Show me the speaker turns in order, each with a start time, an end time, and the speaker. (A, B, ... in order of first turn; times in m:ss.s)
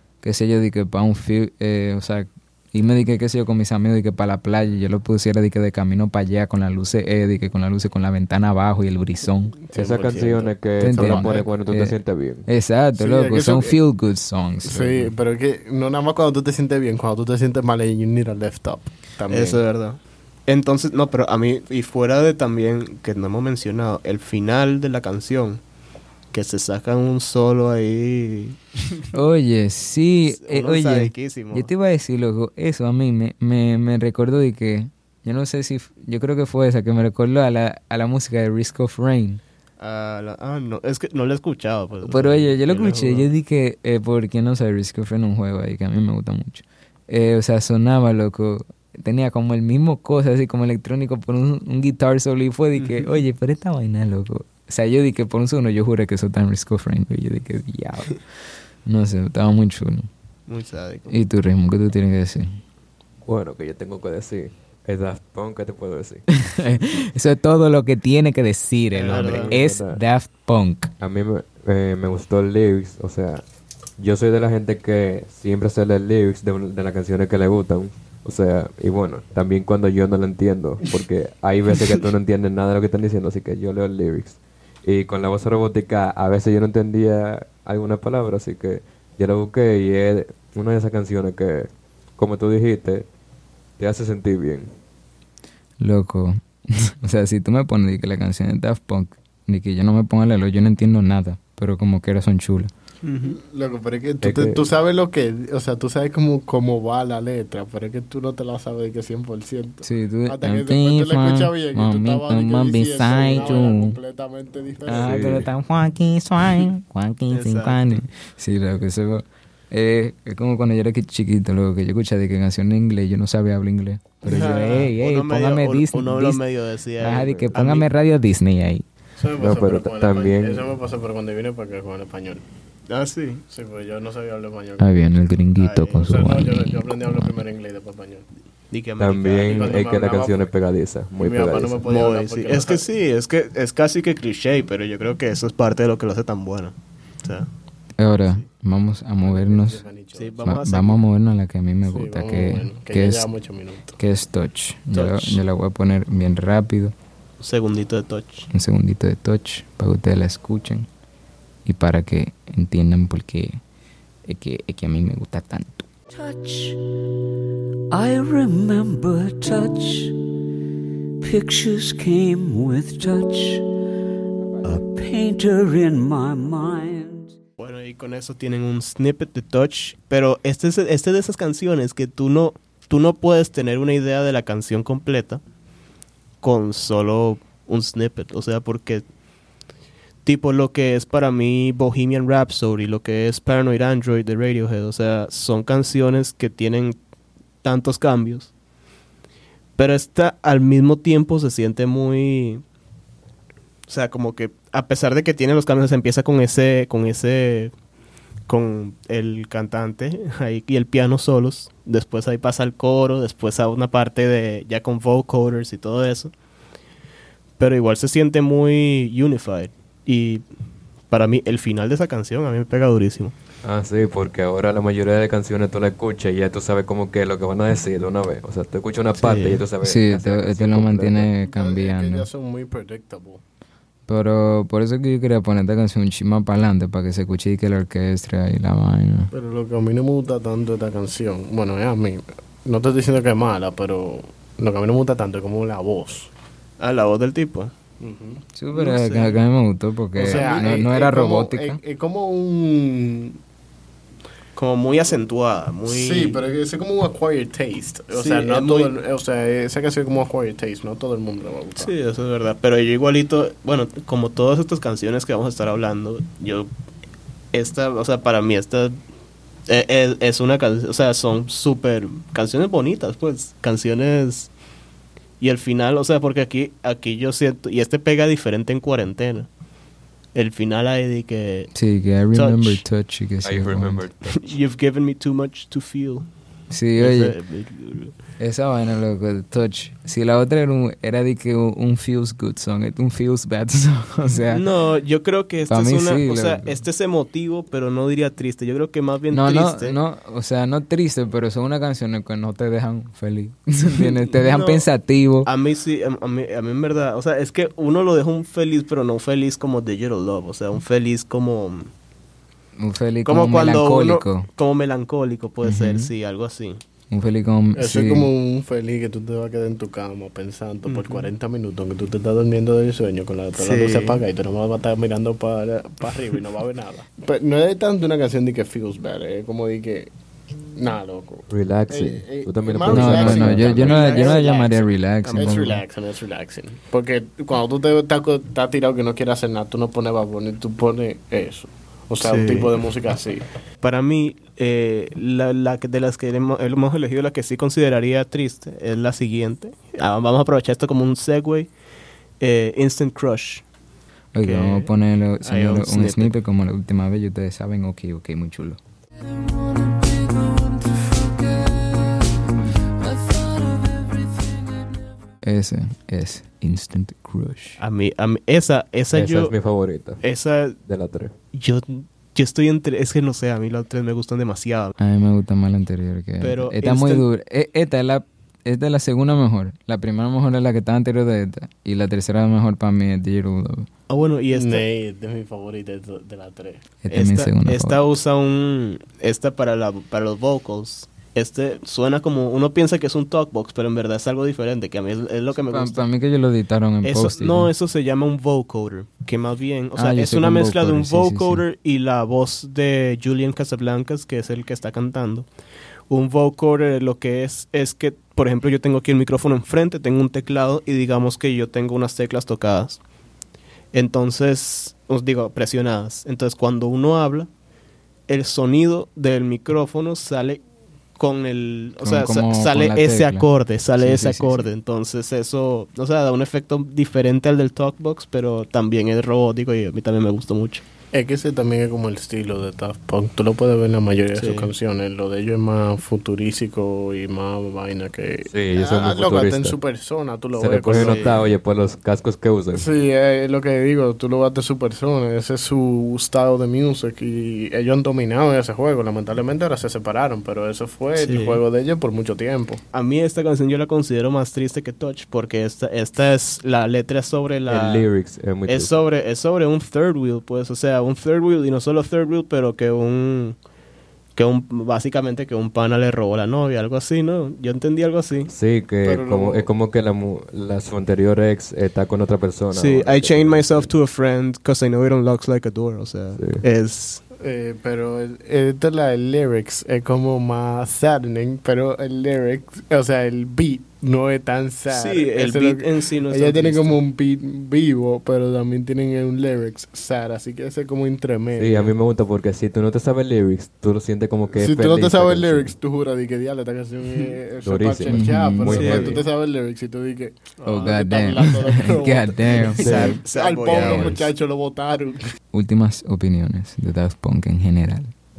0:00.2-0:09.5 A
0:09.6-0:11.5 B
0:09.7-0:12.5 C
0:10.8-0:15.1 A
0:12.9-0:13.8 B
0:14.6-0:19.6 B
0:19.3-0:25.6 D
0:26.3-0:28.8 D
0:29.1-0:39.4 A
0:30.2-0:31.7 D
0:39.8-0:43.3 D
0:42.0-0:58.2 A
0:52.8-0:53.1 D
0:58.8-1:00.1 A
1:00.5-1:01.1 D
1:01.1-1:02.5 A
1:03.2-1:06.2 C
1:06.3-1:10.9 A
1:08.9-1:09.6 D
1:09.1-1:10.0 C
1:11.0-1:13.4 C
1:14.0-1:33.1 C
1:33.8-1:34.7 C
1:35.8-1:42.7 A
1:43.0-1:43.4 D
1:43.2-1:55.1 B
1:44.2-1:44.6 C
1:49.8-1:54.0 A
1:54.8-2:06.4 A
1:54.9-1:55.5 C
1:57.3-1:58.0 D
2:04.2-2:07.9 D
2:07.0-2:08.8 A
2:07.2-2:07.6 C
2:09.2-2:12.4 B
2:09.4-2:10.7 C
2:12.9-2:13.4 D
2:13.5-2:15.2 B
2:14.8-2:17.4 A
2:15.5-2:16.3 D
2:16.0-2:18.2 B
2:18.7-2:19.8 D
2:19.0-2:21.8 C
2:19.4-2:20.4 B
2:21.2-2:22.9 B
2:21.8-2:27.5 D
2:28.0-2:29.8 A
2:29.2-2:30.6 B
2:30.1-2:31.0 D
2:30.4-2:33.3 A
2:31.8-2:34.0 B
2:34.0-2:36.9 A
2:34.9-2:35.4 D
2:37.4-2:38.5 D
2:38.5-2:40.9 A
2:41.6-2:43.6 A
2:44.3-2:45.9 A
2:46.2-2:46.8 E
2:47.9-2:50.2 E
2:51.2-2:53.7 E
2:54.6-2:57.3 E
2:57.6-3:05.4 D
3:06.4-3:09.0 D
3:10.2-3:17.0 D
3:17.6-3:18.5 D
3:19.8-3:22.6 D
3:23.9-3:27.7 D
3:28.5-3:36.3 D
3:37.6-3:40.4 D
3:41.1-3:43.3 D
3:43.6-3:50.1 C
3:49.1-3:49.6 D
3:49.8-3:52.3 A
3:50.1-3:53.4 B
3:54.1-3:59.3 A
3:59.3-4:06.3 B
4:06.8-4:07.7 D
4:08.0-4:08.4 B
4:08.5-4:11.8 A
4:08.7-4:09.4 D
4:10.1-4:13.4 B
4:10.3-4:10.6 D
4:14.6-4:16.4 D
4:15.8-4:21.9 B
4:18.1-4:18.9 D
4:21.8-4:26.7 D
4:27.5-4:29.0 D
4:29.7-4:34.5 D
4:35.4-4:39.5 D
4:40.3-4:41.7 D
4:41.7-4:44.0 A
4:42.3-4:42.8 D
4:43.4-4:44.5 C
4:44.3-4:46.3 D
4:46.7-4:47.3 A
4:47.0-4:48.1 D
4:48.4-4:54.6 A
4:54.5-5:00.0 D
4:55.7-4:56.7 A
4:59.3-5:05.5 A
5:03.9-5:04.9 D
5:05.4-5:11.9 D
5:12.8-5:14.5 A
5:13.2-5:16.8 D
5:15.6-5:16.1 A
5:17.1-5:18.3 A
5:17.8-5:30.1 B
5:20.9-5:21.3 D
5:23.6-5:24.2 D
5:30.8-5:43.4 B
5:31.5-5:33.9 C
5:32.9-5:35.8 A
5:33.7-5:35.6 D
5:42.2-5:42.7 D
5:43.8-5:51.7 D
5:52.4-5:53.6 D
5:54.3-5:58.8 A
5:54.4-5:56.3 D
6:05.4-6:07.8 A
6:07.8-6:09.5 D
6:09.1-6:10.2 C
6:10.2-6:10.8 D
6:10.8-6:11.3 C
6:11.5-6:15.0 D
6:15.0-6:23.9 A
6:16.4-6:17.3 D
6:24.1-6:24.8 D
6:24.5-6:26.8 B
6:27.0-6:28.1 A
6:27.1-6:36.0 D
6:35.6-6:37.7 A
6:37.0-6:45.5 D
6:40.0-6:41.6 A
6:46.1-6:53.0 D
6:53.9-6:57.5 D
6:58.3-7:00.6 D
7:01.2-7:10.8 D
7:02.0-7:04.7 A
7:11.1-7:21.5 B
7:14.3-7:14.7 D
7:18.5-7:19.8 C
7:20.5-7:22.9 C
7:20.9-7:21.3 D
7:22.7-7:32.8 B
7:31.1-7:31.6 D
7:32.9-7:38.1 D
7:37.7-7:38.9 C
7:38.6-7:43.6 D
7:44.3-7:48.5 D
7:48.5-7:53.9 C
7:49.0-7:49.7 B
7:52.7-7:57.2 D
7:56.4-7:56.6 C
7:57.4-8:11.9 B
8:04.9-8:07.0 D
8:11.5-8:15.7 C
8:14.5-8:25.2 B
8:17.6-8:19.1 C
8:18.0-8:19.1 A
8:18.6-8:19.2 D
8:20.6-8:21.0 D
8:20.6-8:23.2 A
8:22.8-8:24.3 D
8:22.8-8:23.2 C
8:23.8-8:24.1 C
8:25.5-8:28.1 A